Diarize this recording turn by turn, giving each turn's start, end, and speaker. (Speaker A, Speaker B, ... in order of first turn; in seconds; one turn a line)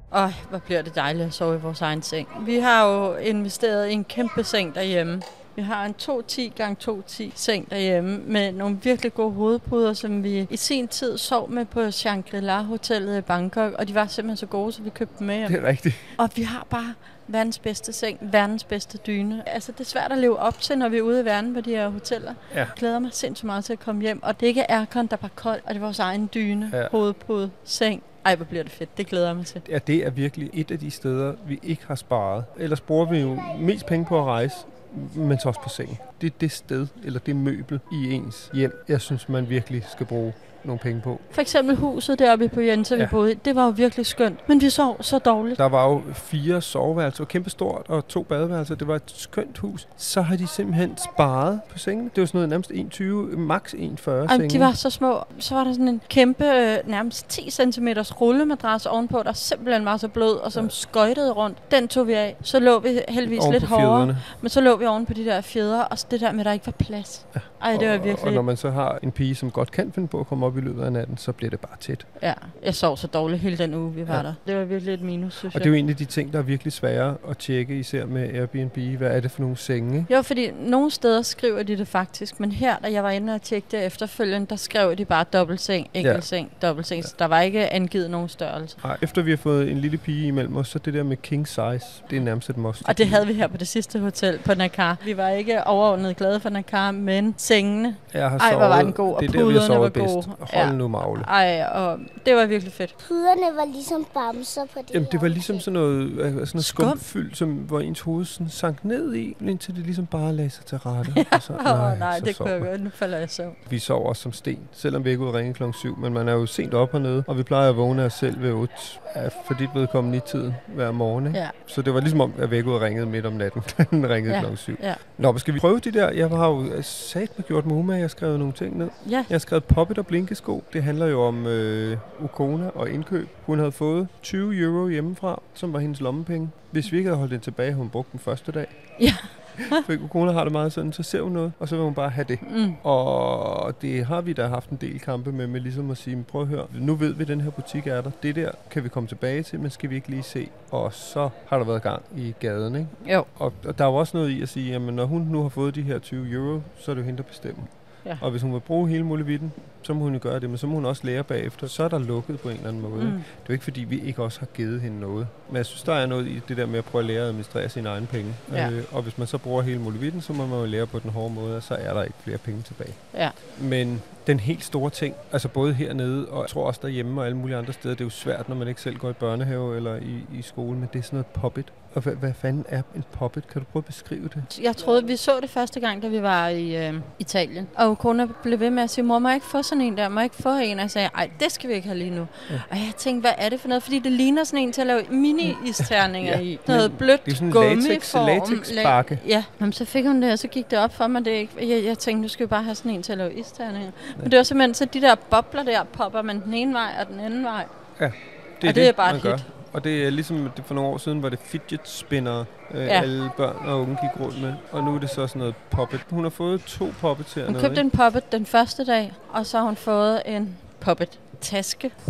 Speaker A: 0.1-29.6
Speaker B: 15.4-16.2
Speaker B: 22.5-22.8
Speaker B: 29.6-41.3
Speaker A: 41.3-45.6
Speaker B: 45.5-54.7
Speaker A: 54.2-68.5
Speaker B: 63.2-64.2
Speaker B: 67.3-72.0
Speaker A: 72.2-75.7
Speaker B: 75.4-80.1
Speaker A: 80.1-88.8
Speaker B: 86.0-86.3
Speaker B: 88.8-93.3
Speaker A: 92.8-102.9
Speaker B: 98.1-101.3
Speaker C: 103.0-105.6
Speaker B: 104.9-112.7
Speaker A: 106.6-107.0
Speaker A: 111.1-113.6
Speaker B: 113.7-139.0
Speaker A: 124.3-125.0
Speaker A: 129.0-129.3
Speaker A: 139.0-139.8
Speaker B: 139.5-157.7
Speaker A: 142.4-142.8
Speaker A: 153.0-153.3
Speaker B: 158.2-184.5
Speaker A: 162.9-163.2
Speaker A: 184.5-207.7
Speaker B: 195.9-199.2
Speaker B: 208.0-217.8
Speaker A: 208.6-209.5
Speaker A: 212.8-213.1
Speaker A: 217.5-221.9